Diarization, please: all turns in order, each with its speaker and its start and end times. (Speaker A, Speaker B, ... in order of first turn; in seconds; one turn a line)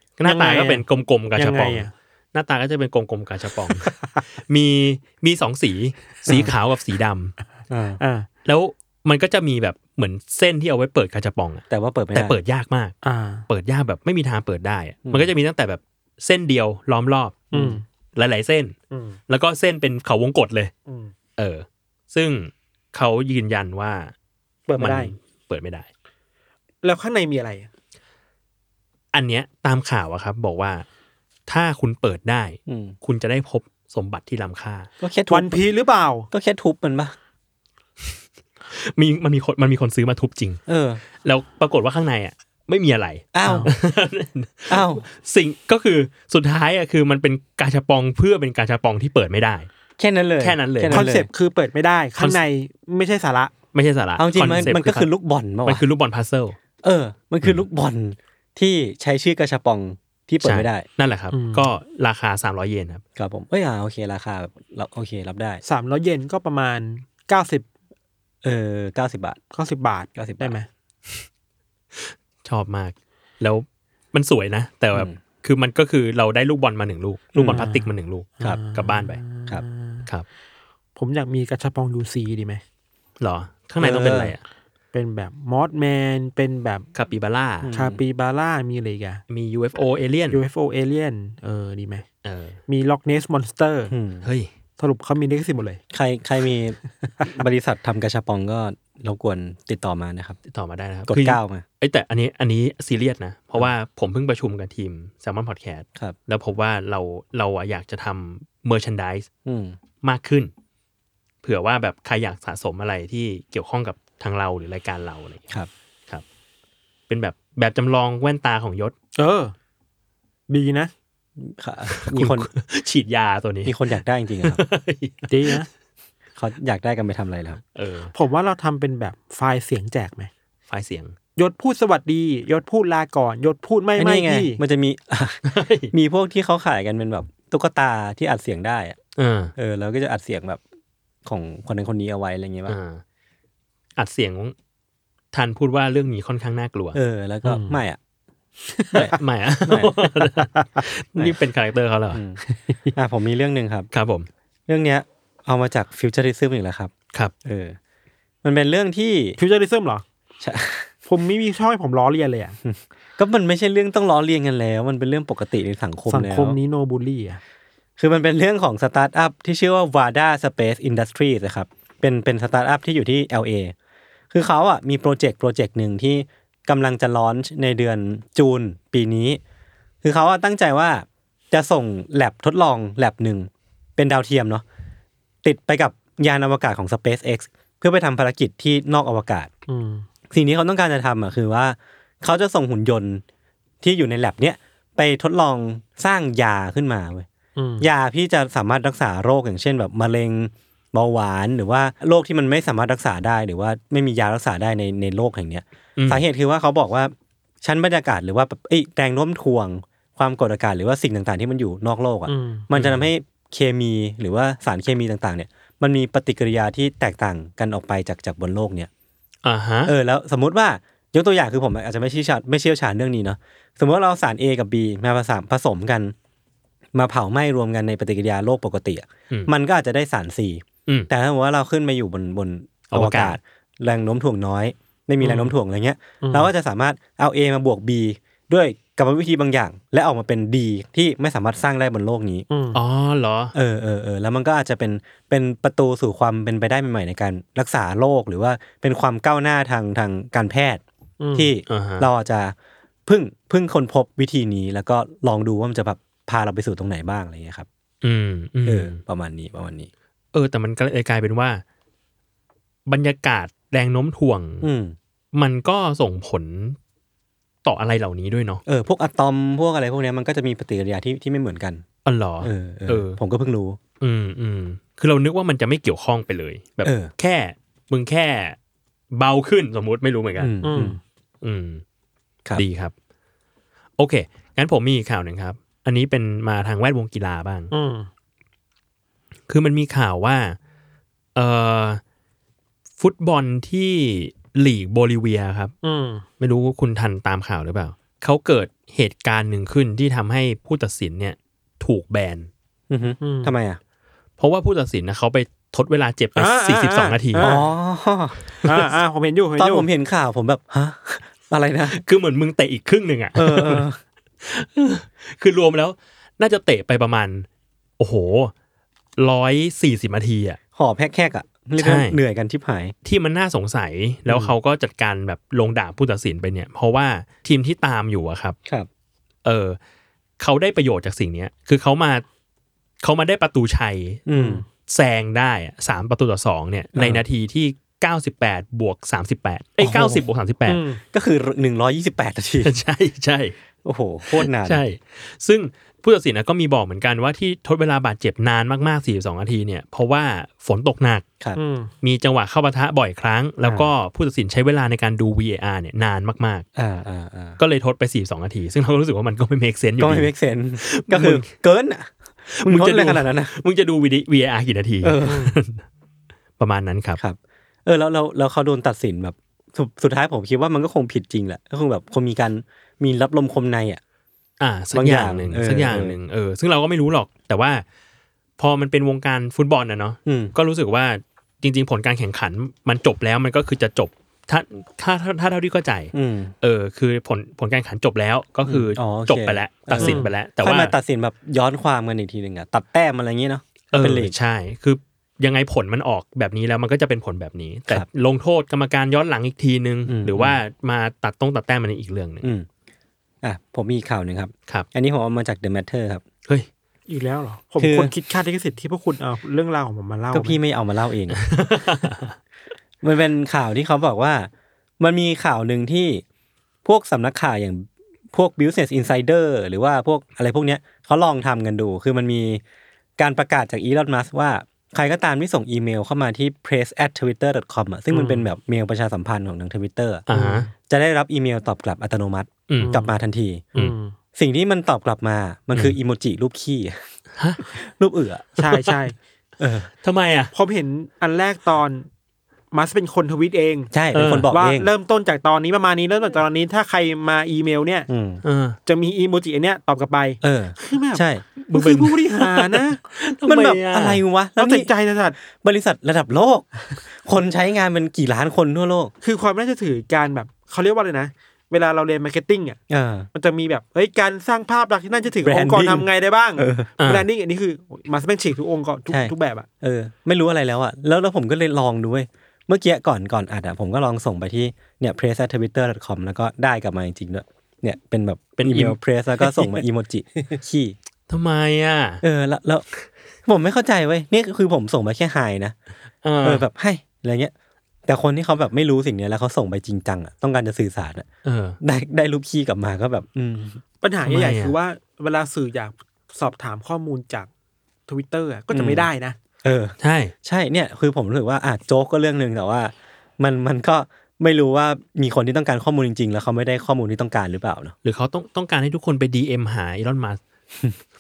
Speaker A: 0.2-7.3
Speaker B: 0.2-0.8
Speaker B: 1.4-1.9
Speaker C: 7.7-8.0
Speaker B: 8.0-8.3
Speaker A: 8.5-13.0
Speaker C: 11.7-12.4
Speaker B: 13.0-13.5
Speaker A: 13.5-17.5
Speaker C: 15.1-15.3
Speaker B: 17.5-17.8
Speaker C: 17.5-17.8
Speaker A: 18.1-18.8
Speaker B: 18.9-19.2
Speaker A: 19.3-20.7
Speaker B: 20.9-21.1
Speaker A: 21.4-24.1
Speaker B: 24.7-25.1
Speaker A: 24.8-25.9
Speaker B: 26.8-27.7
Speaker A: 29.1-30.9
Speaker A: 31.5-34.9
Speaker C: 32.7-33.0
Speaker C: 35.0-35.6
Speaker B: 35.3-36.3
Speaker C: 36.3-37.2
Speaker A: 38.7-40.6
Speaker C: 40.7-41.0
Speaker A: 41.2-49.7
Speaker C: 43.3-43.7
Speaker B: 43.4-43.7
Speaker C: 44.7-45.0
Speaker C: 50.0-51.3
Speaker A: 50.4-51.1
Speaker B: 50.9-53.5
Speaker A: 53.7-55.1
Speaker C: 54.2-55.8
Speaker A: 55.6-56.6
Speaker C: 56.8-60.9
Speaker A: 60.4-63.0
Speaker B: 61.3-61.7
Speaker C: 63.2-65.6
Speaker B: 65.6-67.7
Speaker C: 68.4-69.4
Speaker B: 69.5-70.7
Speaker C: 70.2-70.6
Speaker A: 71.9-79.2
Speaker C: 77.3-77.7
Speaker B: 77.4-80.0
Speaker B: 81.0-82.6
Speaker A: 83.2-84.4
Speaker C: 83.8-84.3
Speaker B: 84.9-86.9
Speaker A: 87.0-87.7
Speaker C: 87.6-88.0
Speaker B: 87.7-89.2
Speaker A: 89.3-90.4
Speaker B: 90.3-92.0
Speaker A: 92.2-92.6
Speaker B: 92.7-93.9
Speaker C: 93.9-94.3
Speaker A: 94.2-94.5
Speaker B: 94.8-95.8
Speaker C: 95.9-100.4
Speaker A: 100.5-109.3
Speaker C: 101.1-101.7
Speaker C: 109.5-109.8
Speaker A: 110.0-110.5
Speaker A: 111.4-115.4
Speaker A: 117.1-118.9
Speaker B: 119.2-119.5
Speaker B: 120.5-120.9
Speaker C: 121.4-122.5
Speaker A: 121.9-123.8
Speaker C: 123.7-124.6
Speaker A: 124.4-125.6
Speaker B: 125.3-125.7
Speaker C: 126.4-127.6
Speaker A: 127.8-128.1
Speaker B: 128.1-130.3
Speaker A: 130.7-131.2
Speaker B: 131.4-134.6
Speaker C: 134.0-139.0
Speaker A: 135.4-135.9
Speaker A: 139.2-139.5
Speaker C: 139.6-140.6
Speaker C: 141.2-142.8
Speaker A: 142.7-143.0
Speaker A: 144.0-144.5
Speaker A: 145.3-147.0
Speaker C: 146.9-148.0
Speaker B: 147.4-147.8
Speaker B: 148.6-149.1
Speaker A: 149.0-152.2
Speaker B: 150.4-150.8
Speaker C: 152.1-152.4
Speaker B: 152.5-152.9
Speaker C: 152.9-153.9
Speaker A: 153.9-154.3
Speaker C: 154.7-156.9
Speaker C: 157.4-157.8
Speaker C: 158.4-159.4
Speaker B: 159.4-160.0
Speaker C: 160.4-160.9
Speaker B: 161.1-162.6
Speaker C: 162.6-166.6
Speaker B: 166.1-167.4
Speaker C: 168.0-173.7
Speaker C: 174.3-179.4
Speaker C: 180.0-184.6
Speaker C: 185.4-189.5
Speaker B: 189.7-190.1
Speaker C: 190.3-193.2
Speaker C: 193.8-197.3
Speaker B: 197.6-197.9
Speaker C: 197.8-218.9
Speaker A: 206.0-206.2
Speaker B: 212.3-212.7
Speaker A: 212.7-213.1
Speaker A: 219.4-219.9
Speaker C: 219.9-226.1
Speaker C: 226.9-242.5
Speaker A: 232.9-233.4
Speaker B: 235.2-235.5
Speaker B: 236.2-236.5
Speaker B: 242.5-242.8
Speaker A: 242.7-243.5
Speaker C: 243.6-250.8
Speaker B: 251.2-251.5
Speaker C: 251.3-252.5
Speaker A: 251.7-252.1
Speaker C: 253.1-257.7
Speaker A: 258.0-259.0
Speaker C: 258.7-259.9
Speaker A: 260.3-261.6
Speaker A: 262.9-264.7
Speaker C: 264.6-265.0
Speaker A: 265.3-266.8
Speaker A: 267.6-268.6
Speaker C: 268.7-271.9
Speaker A: 272.1-273.2
Speaker C: 272.4-273.8
Speaker A: 274.0-278.6
Speaker C: 276.8-277.1
Speaker A: 279.1-280.5
Speaker C: 280.4-281.0
Speaker B: 280.6-281.0
Speaker A: 281.4-281.8
Speaker A: 282.6-282.9
Speaker A: 284.0-287.7
Speaker B: 287.7-288.1
Speaker A: 289.5-290.6
Speaker A: 291.4-292.0
Speaker A: 293.0-295.7
Speaker B: 295.8-296.2
Speaker A: 296.4-302.5
Speaker C: 302.9-303.8
Speaker B: 303.2-303.6
Speaker A: 304.4-307.5
Speaker B: 306.4-307.6
Speaker C: 307.4-308.4
Speaker B: 308.6-309.9
Speaker C: 309.6-312.0
Speaker A: 311.9-313.9
Speaker C: 313.4-314.0
Speaker A: 314.4-317.5
Speaker A: 318.0-318.5
Speaker A: 319.2-320.6
Speaker C: 320.8-322.9
Speaker A: 321.8-322.2
Speaker A: 323.1-328.6
Speaker A: 329.4-329.8
Speaker A: 330.4-332.2
Speaker A: 333.0-334.3
Speaker C: 334.3-334.6
Speaker B: 334.4-334.6
Speaker A: 334.8-340.8
Speaker C: 336.9-337.2
Speaker C: 339.8-340.2
Speaker B: 340.7-341.0
Speaker C: 341.1-342.7
Speaker A: 342.6-343.6
Speaker C: 343.8-344.8
Speaker A: 344.3-351.3
Speaker B: 351.6-351.9
Speaker A: 352.0-356.6
Speaker C: 356.8-357.6
Speaker A: 357.6-361.5
Speaker C: 360.0-362.1
Speaker A: 362.5-365.8
Speaker C: 362.6-363.5
Speaker C: 365.0-365.5
Speaker B: 365.2-365.5
Speaker A: 366.6-367.2
Speaker C: 367.2-374.0
Speaker A: 374.6-377.8
Speaker C: 374.9-376.2
Speaker A: 378.6-390.9
Speaker C: 380.3-380.5
Speaker C: 386.1-386.5
Speaker C: 388.7-394.3
Speaker B: 390.0-390.3
Speaker A: 393.9-402.5
Speaker C: 400.1-400.6
Speaker C: 402.4-402.7
Speaker C: 403.4-406.2
Speaker B: 407.1-410.6
Speaker C: 407.8-408.1
Speaker C: 410.3-411.4
Speaker A: 411.3-412.3
Speaker C: 413.0-416.2
Speaker C: 416.9-422.6
Speaker C: 423.2-430.3
Speaker B: 428.1-428.5
Speaker A: 430.3-430.7
Speaker B: 430.3-430.7
Speaker C: 430.8-433.7
Speaker A: 432.7-433.0
Speaker B: 432.8-433.1
Speaker B: 433.8-434.1
Speaker C: 434.4-437.1
Speaker A: 437.4-437.6
Speaker C: 437.7-438.5
Speaker B: 438.6-439.2
Speaker A: 438.6-438.9
Speaker C: 439.6-439.9
Speaker A: 440.0-440.5
Speaker B: 440.5-442.1
Speaker B: 442.7-443.9
Speaker C: 443.9-444.9
Speaker A: 444.1-444.5
Speaker B: 444.5-448.1
Speaker C: 448.1-448.4
Speaker A: 448.4-448.8
Speaker B: 448.9-453.0
Speaker C: 450.4-451.4
Speaker A: 451.7-454.2
Speaker C: 453.5-454.9
Speaker B: 454.6-455.4
Speaker C: 455.4-459.1
Speaker B: 459.2-462.8
Speaker C: 462.9-463.3
Speaker B: 463.3-469.7
Speaker C: 465.4-466.1
Speaker C: 466.6-466.9
Speaker A: 467.0-467.3
Speaker C: 469.1-481.0
Speaker A: 478.6-479.0
Speaker A: 481.3-482.2
Speaker C: 482.2-482.9
Speaker C: 483.5-485.8
Speaker A: 486.2-486.6
Speaker C: 486.4-487.5
Speaker C: 488.1-491.3
Speaker A: 491.4-491.8
Speaker C: 491.8-493.8
Speaker B: 494.0-497.5
Speaker A: 494.2-494.8
Speaker B: 498.1-499.4
Speaker C: 498.7-499.1
Speaker C: 499.6-507.9
Speaker A: 500.0-500.3
Speaker A: 508.0-510.4